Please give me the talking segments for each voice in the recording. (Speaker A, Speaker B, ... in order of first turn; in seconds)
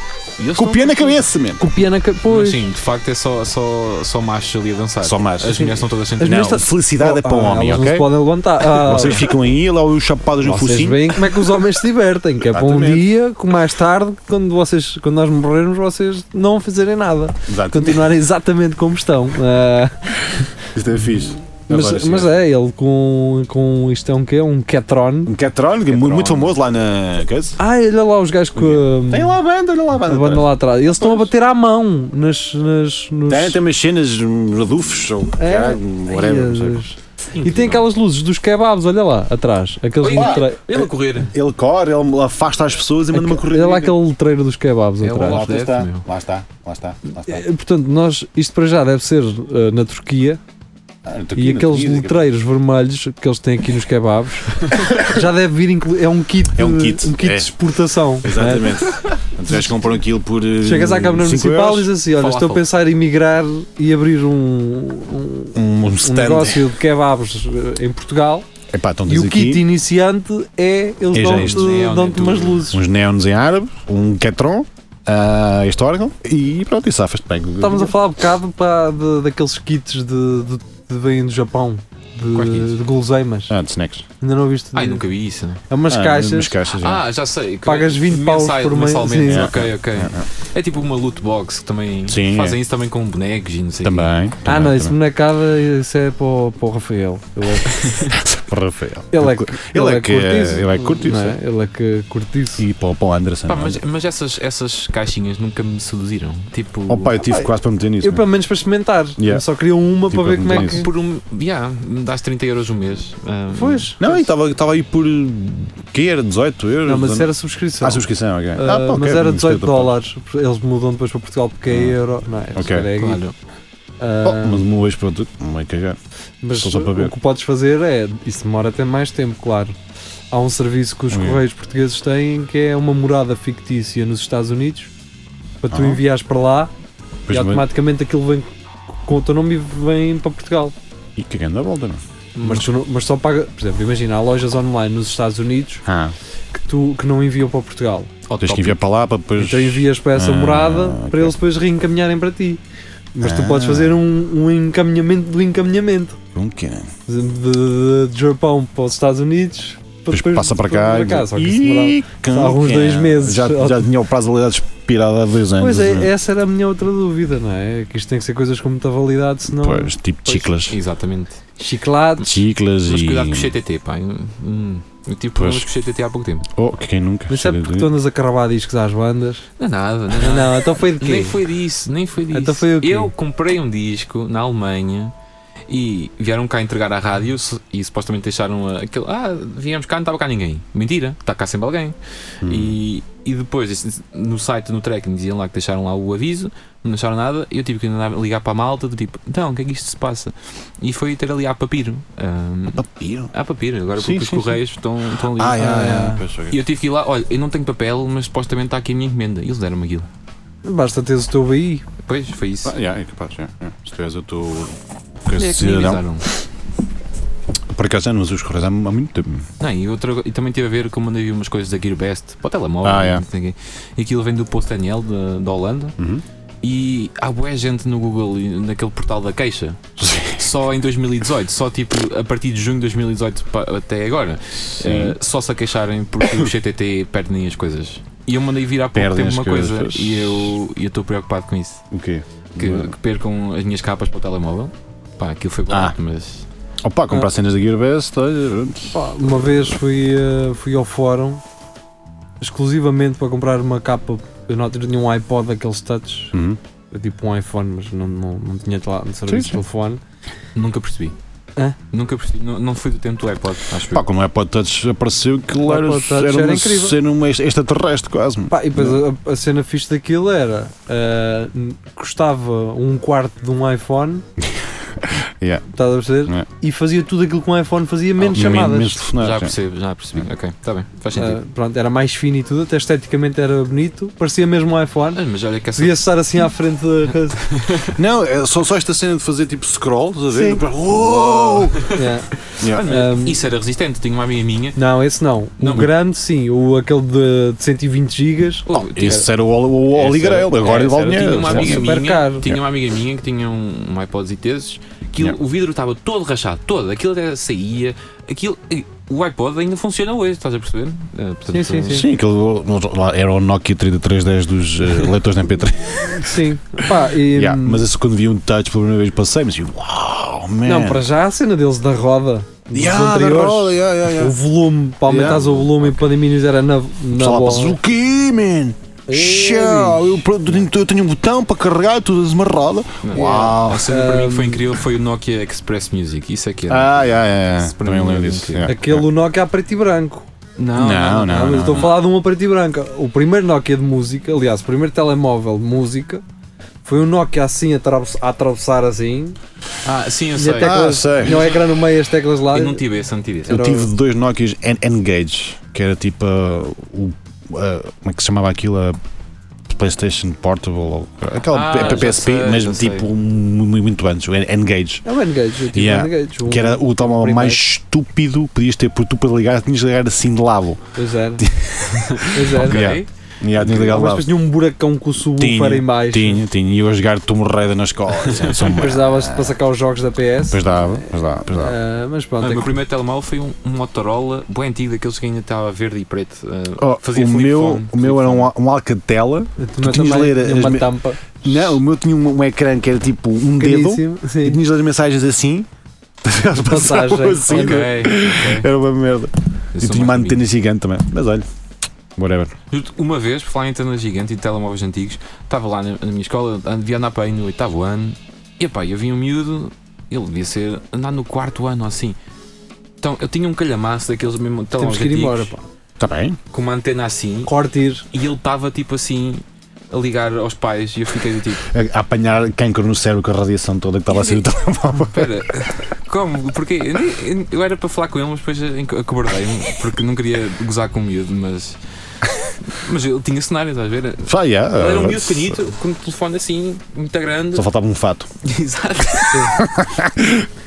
Speaker A: 0.4-1.2, 2.3-6.5, 37.4-37.8, 40.0-41.3, 45.0-46.1, 62.0-62.6, 71.2-72.7, 82.3-82.7, 84.7-85.6, 86.8-94.1, 103.5-107.2, 110.5-113.9, 123.0-123.3, 148.3-148.8, 170.7-171.4, 172.9-176.5, 179.6-185.1, 185.7-205.7, 206.5-210.1, 212.1-212.8, 215.4-216.2, 219.6-225.9, 226.6-241.8, 242.6-246.4, 260.6-261.1, 261.9-264.1, 278.2-281.4, 285.1-286.1, 287.6-287.9, 291.2-291.9, 292.6-294.8, 295.6-295.9, 298.7-299.3, 299.9-312.0, 333.0-338.7, 340.6-341.9, 349.9-351.7, 352.5-353.6, 361.5-363.1, 372.1-373.1, 378.3-378.6, 382.4-388.5, 397.5-398.7, 399.7-400.4, 402.7-412.2, 413.0-415.5, 416.5-417.5, 418.1-421.7, 424.1-431.8, 432.7-437.7, 438.4-439.5
Speaker B: 0.5-1.7, 5.0-5.7, 6.2-11.2, 12.4-13.1, 17.5-18.1, 20.7-22.4, 25.3-27.6, 28.6-31.3, 33.3-36.8, 40.0-44.0, 45.2-47.4, 51.0-52.2, 56.5-61.9, 65.5-66.7, 68.7-69.7, 71.1-71.9, 72.7-78.0, 83.5-84.1, 85.9-87.0, 89.2-90.3, 92.1-92.6, 93.8-95.0, 98.1-101.4, 102.6-103.8, 106.9-108.2, 109.2-109.5, 110.1-110.9, 114.0-117.3, 117.8-120.0, 121.7-122.0, 122.5-122.9, 124.2-126.0, 126.6-127.1, 131.1-131.4, 135.7-136.0, 137.3-137.7, 141.2-142.0, 145.9-146.1, 148.4-151.3, 153.2-154.0, 156.3-156.9, 160.1-166.1, 169.5-170.8, 172.2-173.5, 175.4-175.7, 176.5-177.9, 192.4-192.8, 202.8-203.3, 204.0-204.6, 205.2-206.6, 212.6-216.3, 217.7-219.5, 222.8-223.2, 226.0-226.2, 230.0-230.4, 234.7-235.2, 238.9-240.5, 241.9-242.9, 245.7-245.9, 246.8-249.0, 256.3-256.6, 259.3-259.6, 263.9-269.0, 274.5-275.6, 278.2-279.6, 288.0-291.8, 292.6-292.9, 298.7-302.6, 311.9-316.3, 317.3-321.1, 322.7-324.4, 325.1-326.0, 327.1-333.9, 336.7-339.1, 340.7-342.0, 350.6-351.5, 353.5-359.0, 359.7-365.1, 365.7-370.8, 371.4-374.3, 375.4-379.6, 380.5-381.8, 386.8-395.7, 396.2-401.5, 402.2-402.5, 416.0-416.4, 421.7-425.4, 434.2-435.6, 437.5-438.3, 439.6-440.5
Speaker C: 1.6-2.7, 5.5-9.3, 10.4-20.5, 21.7-25.3, 25.9-26.5, 27.6-29.4, 30.1-33.6, 35.4-40.6, 43.1-45.5, 47.3-50.4, 51.4-58.8, 60.6-68.5, 69.1-72.8, 77.6-83.5, 84.2-85.0, 85.7-86.6, 87.7-89.5, 94.5-98.0, 99.1-102.6, 107.2-107.5, 108.0-110.9, 113.6-114.3, 116.8-123.2, 124.0-124.7, 126.4-129.8, 130.3-134.9, 135.6-136.7, 137.3-138.5, 139.1-140.8, 142.4-145.8, 146.5-148.1, 149.4-152.6, 153.1-156.2, 157.1-163.9, 165.6-170.5, 171.6-172.3, 177.3-179.5, 180.2-181.4, 182.3-183.1, 205.6-206.2, 210.6-211.8, 248.9-251.4, 252.4-256.3, 256.9-260.0, 265.6-267.0, 268.5-274.2, 275.7-279.0, 281.1-285.2, 285.8-287.4, 290.3-290.7, 291.8-293.4, 294.8-299.1, 301.2-302.5, 311.5-312.1, 316.1-317.9, 320.6-327.8, 329.1-330.1, 333.1-334.6, 338.7-340.3, 341.1-346.2, 346.9-349.4, 350.4-352.8, 353.5-353.9, 365.1-367.6, 370.9-371.4, 372.3-372.9, 373.6-376.4, 378.6-380.9, 381.5-382.8, 389.6-391.7, 393.6-394.6, 396.6-397.9, 414.8-415.6, 417.4-418.1